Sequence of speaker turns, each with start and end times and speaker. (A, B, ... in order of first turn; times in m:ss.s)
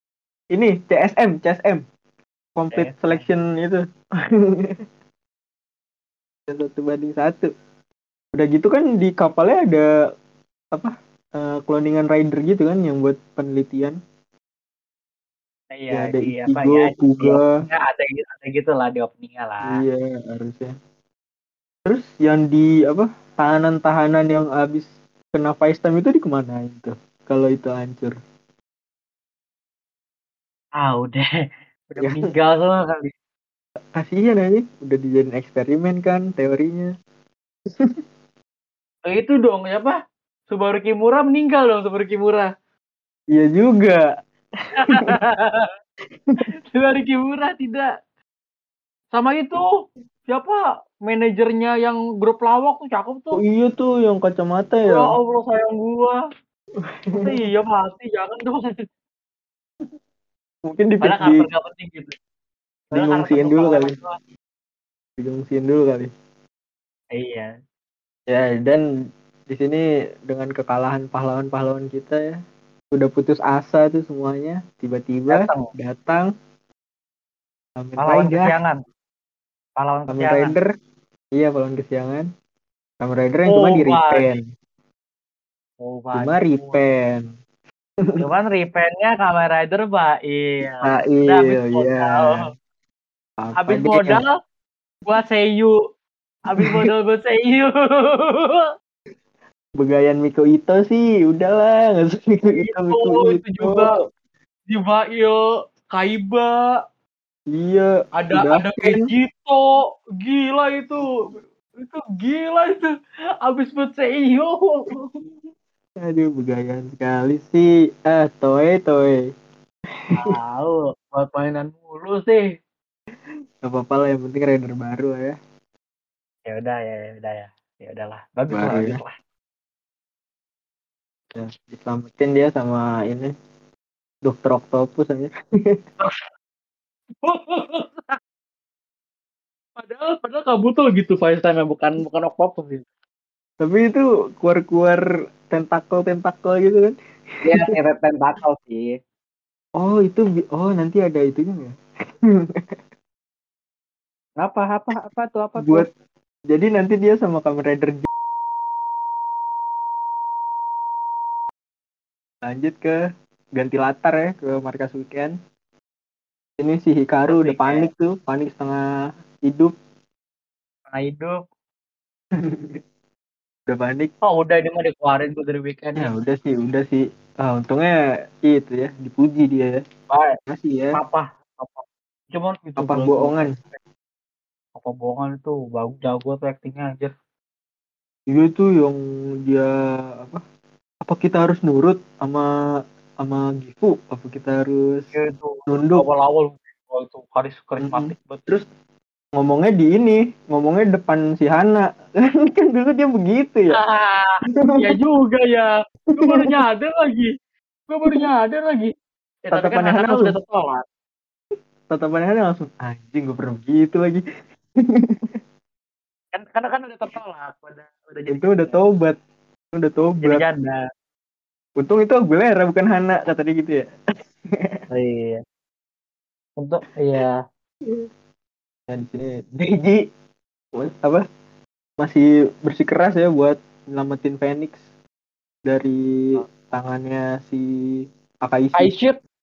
0:00.5-0:01.8 A
0:02.6-0:03.8 A
0:02.7-0:03.2 B
0:04.4-0:04.8 A
0:06.5-0:07.5 A
0:08.3-0:09.9 A
0:10.7-0:14.0 A
0:15.7-0:19.8 B
0:15.9-0:17.5 A
0:19.7-0:20.7 A
0:21.8-0:28.2 A
0:30.8-0:31.2 B
0:31.9-0:33.1 B
0:32.0-0:32.3 A
0:33.8-0:36.9 A
0:37.7-0:38.0 A
0:39.1-0:40.0 B
0:40.5-0:42.5 B
0:43.3-0:44.1 A
0:44.8-0:45.7 B
0:44.9-0:45.2 A
0:46.7-0:47.9 B
0:49.1-0:49.7 B
0:50.3-0:53.4 B
0:53.4-0:55.1 A
0:54.9-0:56.2 B
0:56.8-0:57.4 A
0:57.1-0:58.9 B
1:00.6-1:01.5 A
1:01.0-1:02.1 B
1:02.9-1:04.2 B
1:02.9-1:03.9 A
1:05.2-1:06.1 A
1:07.1-1:07.6 B
1:08.3-1:08.8 A
1:09.5-1:12.4 A
1:12.9-1:16.3 A
1:15.3-1:15.7 B
1:17.8-1:18.5 A
1:18.0-1:18.8 B
1:19.8-1:20.5 B
1:20.1-1:20.7 A
1:21.3-1:22.3 A
1:23.0-1:24.4 A
1:23.5-1:24.4 B
1:25.8-1:26.8 B
1:26.1-1:27.3 A
1:28.2-1:32.5 B
1:30.8-1:32.5 A
1:33.4-1:34.2 A
1:33.6-1:34.4 B
1:35.0-1:35.8 B
1:36.5-1:38.7 B
1:36.6-1:36.9 A
1:39.8-1:43.9 A
1:42.4-1:43.9 B
1:44.7-1:46.7 B
1:47.5-1:49.1 A
1:48.2-1:51.1 B
1:51.8-1:52.9 B
1:53.4-1:55.1 B
1:56.0-1:59.3 A
2:00.2-2:02.5 B
2:03.6-2:05.4 A
2:06.5-2:09.1 B
2:08.5-2:09.0 A
2:11.4-2:13.3 A
2:14.2-2:15.8 A
2:16.0-2:16.2 B
2:17.2-2:18.2 B
2:19.8-2:22.9 B
2:23.6-2:27.0 A
2:27.4-2:29.0 B
2:29.8-2:31.7 A
2:32.3-2:32.8 A
2:34.4-2:35.9 B
2:35.6-2:35.9 A
2:36.5-2:38.1 A
2:42.4-2:43.0 A
2:43.6-2:45.4 A
2:46.6-2:48.8 A
2:47.3-2:47.9 B
2:49.4-2:49.7 A
2:50.9-2:51.4 B
2:52.4-2:52.8 A
2:53.7-2:54.1 A
2:54.2-2:56.1 B
2:56.0-2:59.8 A
3:00.1-3:00.4 B
3:00.5-3:01.0 A
3:00.9-3:03.8 B
3:02.8-3:03.5 A
3:04.8-3:07.1 B
3:08.3-3:10.4 A
3:11.0-3:12.5 A
3:13.2-3:15.1 A
3:15.2-3:18.4 B
3:15.7-3:16.1 A
3:17.8-3:18.7 A
3:19.4-3:23.8 A
3:23.8-3:27.3 B
3:24.5-3:25.0 A
3:26.1-3:26.6 A
3:27.9-3:28.9 B
3:29.5-3:30.8 B
3:29.5-3:30.4 A
3:31.9-3:34.2 A
3:34.9-3:35.4 A
3:36.3-3:38.8 B
3:38.3-3:39.2 A
3:39.7-3:40.4 A
3:40.2-3:40.8 B
3:41.8-3:43.9 A
3:44.5-3:44.8 A
3:44.9-3:45.4 B
3:46.6-3:47.4 B
3:48.9-3:50.1 A
3:50.8-3:51.2 A
3:52.0-3:54.8 A
3:55.6-3:58.9 A
3:58.8-3:59.2 B